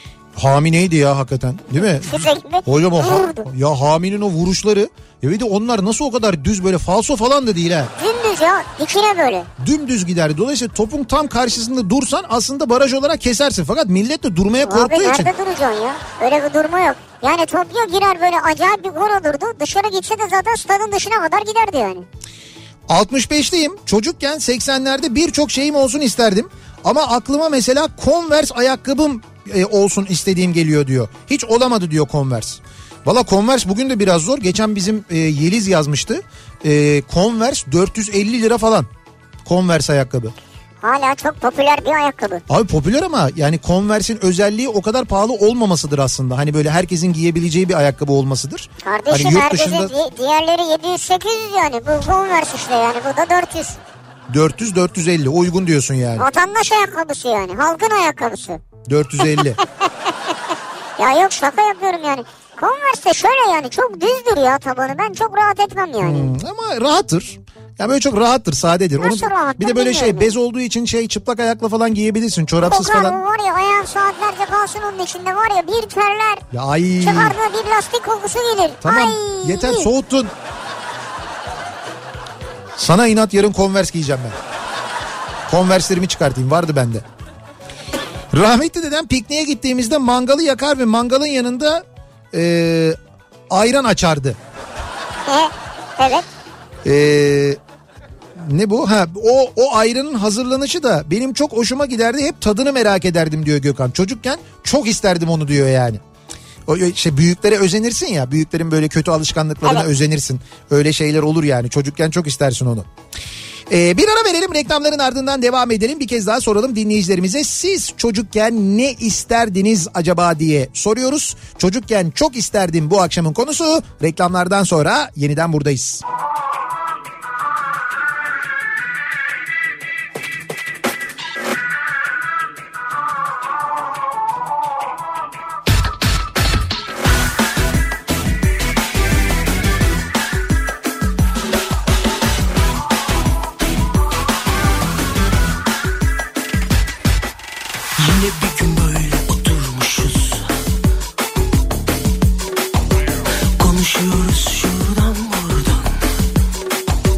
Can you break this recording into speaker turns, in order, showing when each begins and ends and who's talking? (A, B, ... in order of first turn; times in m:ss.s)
0:00.4-0:07.9 A
0:01.9-0:03.5 B
0:08.0-0:09.5 B
0:09.6-0:15.3 A
0:14.6-0:22.1 B
0:22.9-0:38.9 A
0:39.4-0:40.4 A
0:40.8-0:42.4 B
0:42.5-0:49.9 A
0:48.8-0:53.8 B
0:54.3-0:56.3 A
0:56.2-0:58.6 B
0:58.9-0:59.6 A
0:59.3-0:59.6 B
1:01.0-1:06.3 B
1:06.0-1:13.2 A
1:09.0-1:10.3 B
1:12.6-1:16.5 B
1:16.5-1:17.4 A
1:17.0-1:19.9 B
1:18.8-1:20.3 A
1:22.8-1:24.4 A
1:25.5-1:27.0 A
1:28.3-1:33.0 A
1:33.5-1:34.4 A
1:35.3-1:36.3 B
1:36.8-1:37.6 A
1:38.4-1:46.0 A
1:46.7-1:52.9 A
1:53.7-2:06.0 A
2:28.0-2:30.6 C
2:33.6-2:36.1 C